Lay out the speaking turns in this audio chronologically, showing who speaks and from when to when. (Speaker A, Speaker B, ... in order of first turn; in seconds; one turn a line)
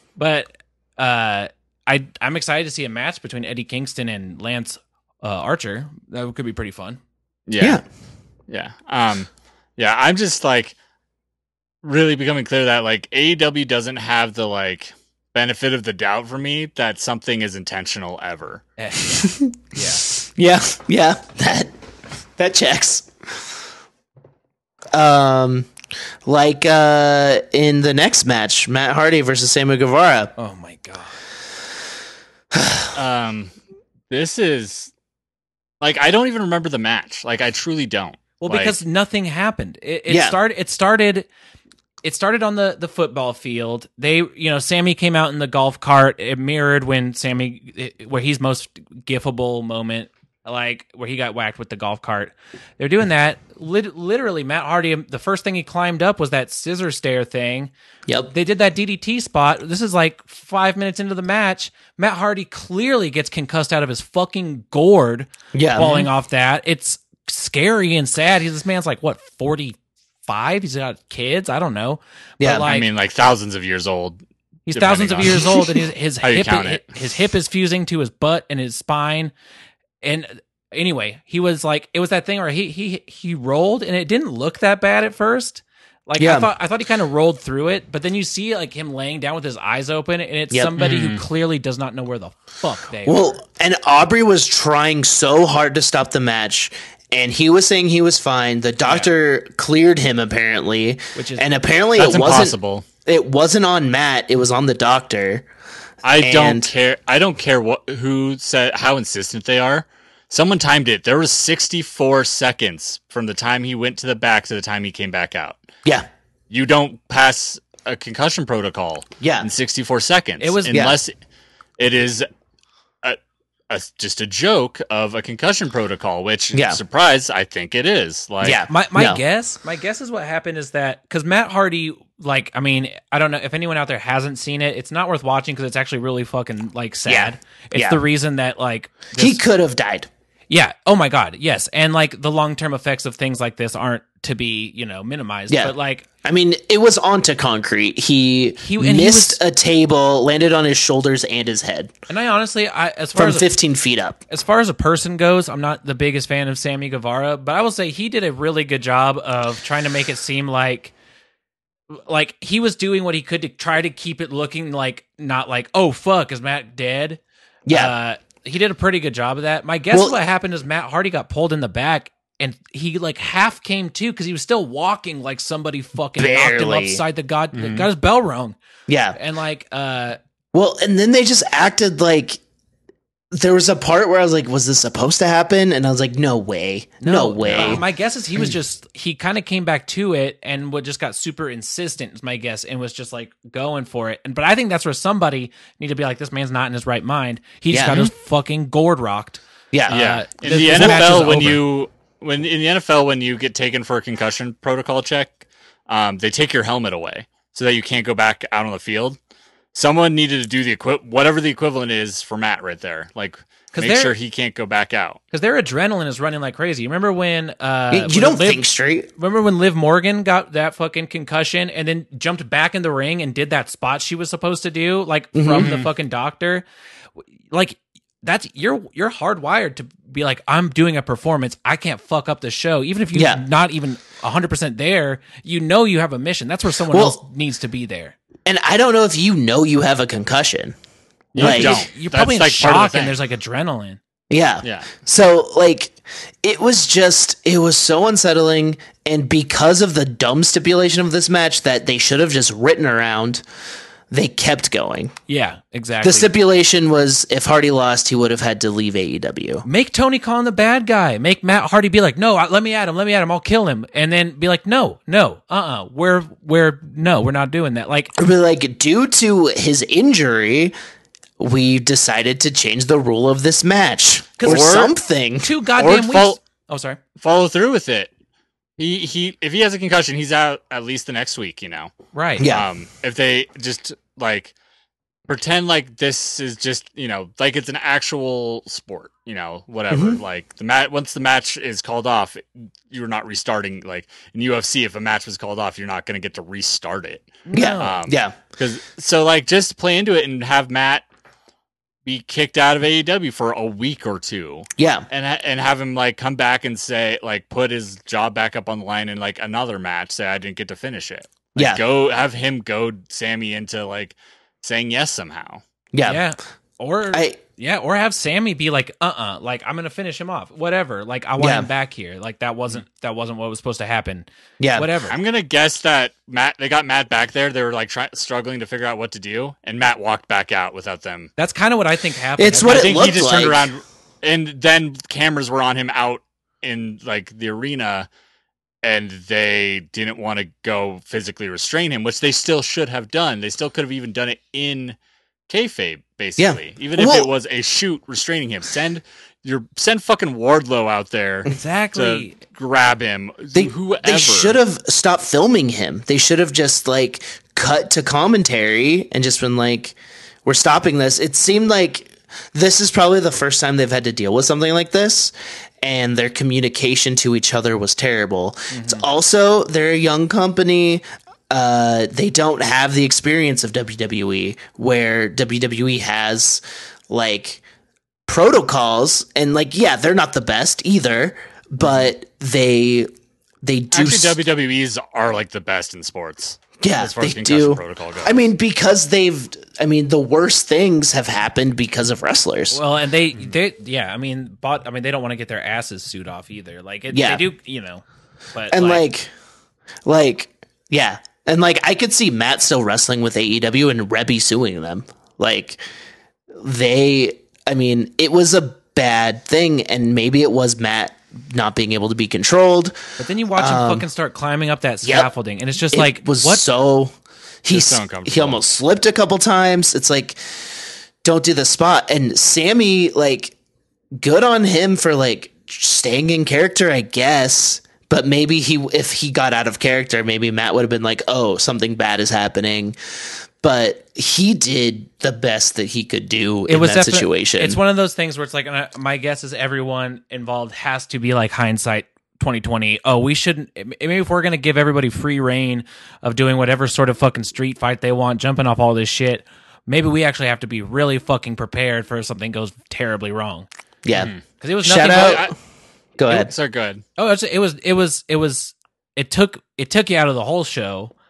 Speaker A: 0.1-7.0
Speaker B: 7.5-7.8
Speaker B: 8.5-10.7
Speaker B: 11.8-18.6
Speaker A: 18.8-20.1
Speaker C: 19.1-21.7
Speaker C: 22.4-23.1
Speaker C: 24.9-25.7
Speaker C: 26.2-30.3
Speaker A: 30.4-31.2
Speaker C: 32.5-32.9
Speaker B: 32.9-33.5
Speaker B: 34.1-34.9
Speaker B: 35.8-38.8
Speaker A: 38.4-41.3
Speaker C: 40.1-40.4
Speaker A: 42.0-57.7
Speaker C: 58.1-58.3
Speaker A: 58.3-72.9
Speaker C: 65.5-66.0
Speaker B: 65.8-66.1
Speaker C: 72.4-72.7
Speaker B: 72.7-74.2
Speaker A: 74.7-79.3
Speaker B: 74.7-75.5
Speaker B: 76.2-76.9
Speaker A: 80.0-93.4
Speaker C: 86.2-86.5
Speaker B: 90.8-91.2
Speaker C: 93.0-105.5
Speaker A: 98.8-99.1
Speaker A: 101.1-101.5
Speaker B: 102.0-102.8
Speaker B: 106.0-115.6
Speaker C: 106.2-106.7
Speaker B: 116.5-121.1
Speaker C: 119.2-119.5
Speaker A: 120.4-120.8
Speaker C: 120.7-121.0
Speaker B: 121.8-122.3
Speaker B: 123.7-128.6
Speaker C: 126.5-126.8
Speaker C: 128.4-129.2
Speaker A: 128.7-139.4
Speaker C: 137.1-138.0
Speaker C: 139.2-140.1
Speaker A: 140.5-146.1
Speaker C: 145.5-151.9
Speaker A: 148.6-149.4
Speaker A: 152.1-153.5
Speaker C: 153.1-154.2
Speaker A: 154.3-160.9
Speaker A: 161.9-178.6
Speaker C: 167.7-167.9
Speaker C: 169.9-170.2
Speaker C: 176.2-177.0
Speaker B: 177.5-177.9
Speaker C: 178.9-179.2
Speaker A: 179.1-180.2
Speaker C: 180.5-182.4
Speaker C: 183.3-187.8
Speaker A: 187.0-201.6
Speaker B: 187.4-187.8
Speaker C: 197.7-198.1
Speaker C: 199.7-201.3
Speaker B: 199.9-209.2
Speaker B: 209.7-215.2
Speaker A: 213.7-214.1
Speaker A: 215.3-218.6
Speaker C: 217.9-219.1
Speaker A: 219.2-226.6
Speaker C: 225.3-225.7
Speaker B: 225.5-225.9
Speaker A: 227.2-238.2
Speaker C: 233.1-233.4
Speaker C: 236.9-237.2
Speaker C: 238.4-240.8
Speaker B: 241.3-243.2
Speaker C: 241.3-241.9
Speaker A: 241.4-244.0
Speaker C: 244.3-253.4
Speaker B: 244.6-244.9
Speaker C: 254.1-255.1
Speaker A: 255.3-256.3
Speaker C: 256.0-259.6
Speaker A: 259.6-268.1
Speaker C: 268.2-270.7
Speaker C: 271.4-275.5
Speaker A: 274.4-274.7
Speaker B: 274.4-274.9
Speaker A: 275.4-277.0
Speaker B: 275.8-276.4
Speaker B: 277.2-278.1
Speaker B: 278.8-281.9
Speaker A: 282.1-282.5
Speaker C: 282.4-282.7
Speaker B: 282.4-284.5
Speaker B: 285.3-301.0
Speaker C: 289.9-290.2
Speaker A: 297.5-298.0
Speaker C: 297.5-298.4
Speaker B: 302.0-315.6
Speaker C: 304.8-305.1
Speaker C: 311.5-311.8
Speaker C: 315.9-316.2
Speaker A: 316.0-325.1
Speaker C: 317.1-317.4
Speaker C: 321.4-321.7
Speaker C: 324.6-324.9
Speaker B: 325.1-331.3
Speaker A: 331.4-333.1
Speaker C: 332.4-333.7
Speaker B: 332.6-338.1
Speaker B: 338.8-344.9
Speaker B: 345.5-354.6
Speaker C: 346.4-347.3
Speaker A: 351.5-352.4
Speaker C: 353.5-377.6
Speaker A: 368.7-369.1
Speaker C: 378.3-383.1
Speaker C: 383.6-384.4
Speaker B: 383.9-388.4
Speaker C: 386.8-392.8
Speaker A: 392.7-399.0
Speaker C: 397.1-397.4
Speaker C: 398.7-399.3
Speaker C: 400.1-405.8
Speaker C: 406.6-413.0
Speaker A: 413.2-416.6
Speaker C: 413.5-414.1
Speaker C: 415.0-415.3
Speaker C: 415.9-420.7
Speaker B: 417.7-418.6
Speaker C: 421.2-423.5
Speaker C: 424.2-437.8
Speaker A: 436.7-453.7
Speaker C: 454.0-454.3
Speaker B: 454.1-455.5
Speaker A: 454.6-455.4
Speaker C: 454.8-455.5
Speaker C: 456.2-456.5
Speaker B: 456.3-457.0
Speaker A: 457.2-461.1